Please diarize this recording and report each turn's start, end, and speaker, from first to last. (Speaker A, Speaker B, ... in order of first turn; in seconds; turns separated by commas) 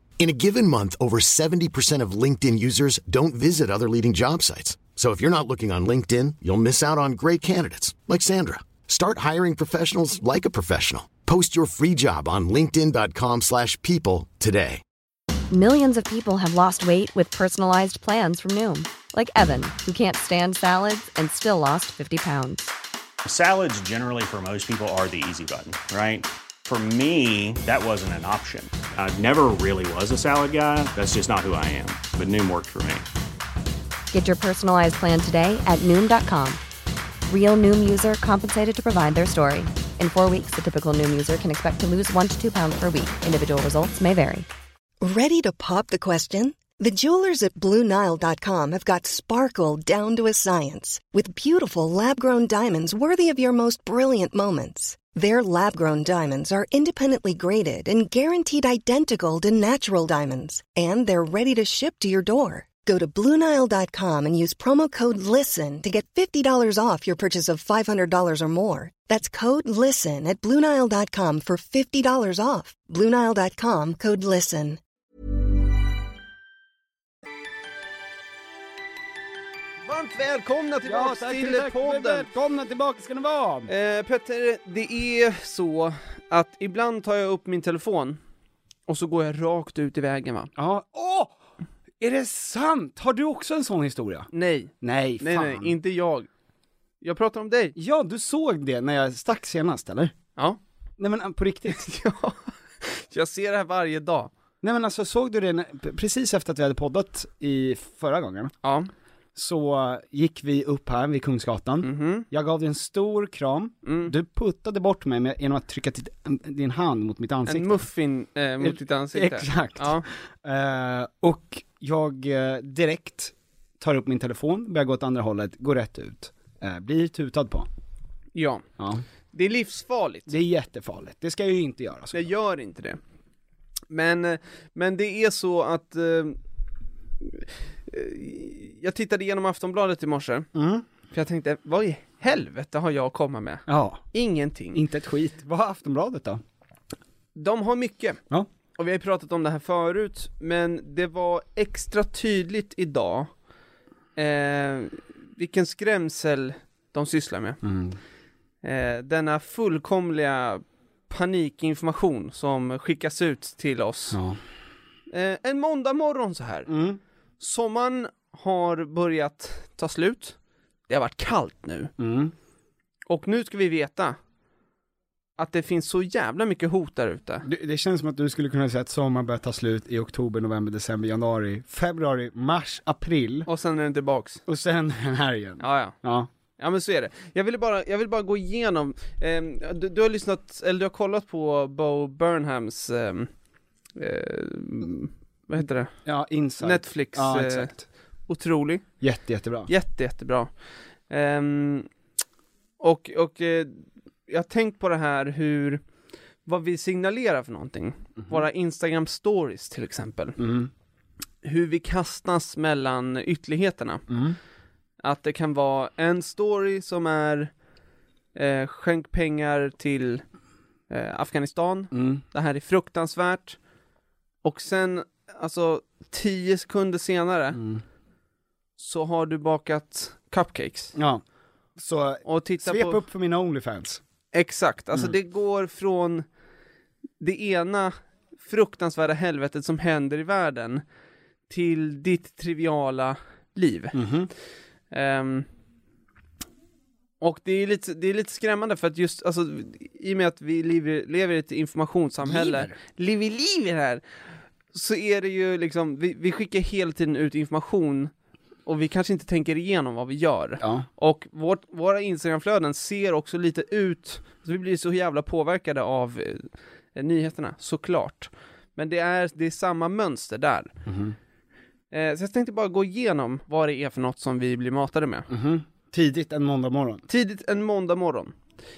Speaker A: 0.2-14.8, Speaker B: 15.5-22.7, Speaker C: 23.2-33.1, Speaker B: 34.1-36.6, Speaker B: 37.3-44.5, Speaker D: 45.0-74.8, Speaker E: 79.9-82.3, Speaker F: 80.8-83.7, Speaker E: 83.7-88.2, Speaker E: 88.9-90.5, Speaker F: 90.6-91.3, Speaker F: 92.0-94.3, Speaker E: 94.3-96.3, Speaker F: 94.8-95.7, Speaker E: 97.0-97.8, Speaker F: 97.8-100.1, Speaker F: 101.0-101.8, Speaker E: 101.7-104.3, Speaker F: 104.6-108.5, Speaker E: 108.6-108.9, Speaker F: 109.3-117.9, Speaker E: 111.8-112.3, Speaker E: 113.8-114.1, Speaker E: 117.5-120.0, Speaker F: 118.6-127.7, Speaker E: 128.3-128.7, Speaker F: 128.8-129.0, Speaker E: 129.3-130.3, Speaker F: 130.3-132.3, Speaker E: 132.1-133.0, Speaker E: 133.9-136.4, Speaker E: 137.4-140.5, Speaker F: 140.5-140.9, Speaker E: 141.1-144.8, Speaker F: 143.7-144.0, Speaker F: 144.7-146.4, Speaker E: 147.4-148.2, Speaker E: 148.8-153.3, Speaker E: 154.2-157.6, Speaker F: 157.6-158.0, Speaker E: 158.6-164.2, Speaker F: 164.1-164.4, Speaker E: 165.1-166.7, Speaker F: 166.7-167.0, Speaker E: 167.4-170.4, Speaker E: 170.9-171.9, Speaker F: 172.0-172.3, Speaker E: 173.1-174.2, Speaker E: 175.4-177.5, Speaker F: 177.4-183.5, Speaker E: 183.5-184.4, Speaker F: 184.5-186.3, Speaker E: 185.6-186.0, Speaker E: 186.6-193.3, Speaker E: 194.0-195.9, Speaker F: 196.1-197.8, Speaker E: 196.6-197.7, Speaker E: 198.3-198.9, Speaker F: 199.0-199.7, Speaker E: 199.7-200.5, Speaker E: 201.1-201.9, Speaker E: 202.8-205.8, Speaker E: 206.5-210.4, Speaker F: 208.2-208.4, Speaker F: 210.4-210.7, Speaker E: 211.4-214.0, Speaker F: 214.1-214.4, Speaker E: 215.0-217.5, Speaker E: 218.3-220.2, Speaker E: 220.9-223.6, Speaker F: 221.9-222.2, Speaker E: 224.4-227.6, Speaker F: 227.5-227.8, Speaker E: 228.8-230.9, Speaker F: 230.9-231.2, Speaker F: 231.8-234.0, Speaker E: 232.3-233.0, Speaker E: 234.3-236.2, Speaker E: 237.2-240.8, Speaker E: 241.5-244.0, Speaker F: 243.9-244.3, Speaker E: 244.9-245.5, Speaker E: 247.2-254.0, Speaker F: 252.2-252.8, Speaker E: 254.7-258.1, Speaker E: 258.7-270.7, Speaker F: 260.6-260.9, Speaker F: 270.9-271.2, Speaker E: 271.9-275.3, Speaker F: 275.3-277.1, Speaker E: 277.1-278.4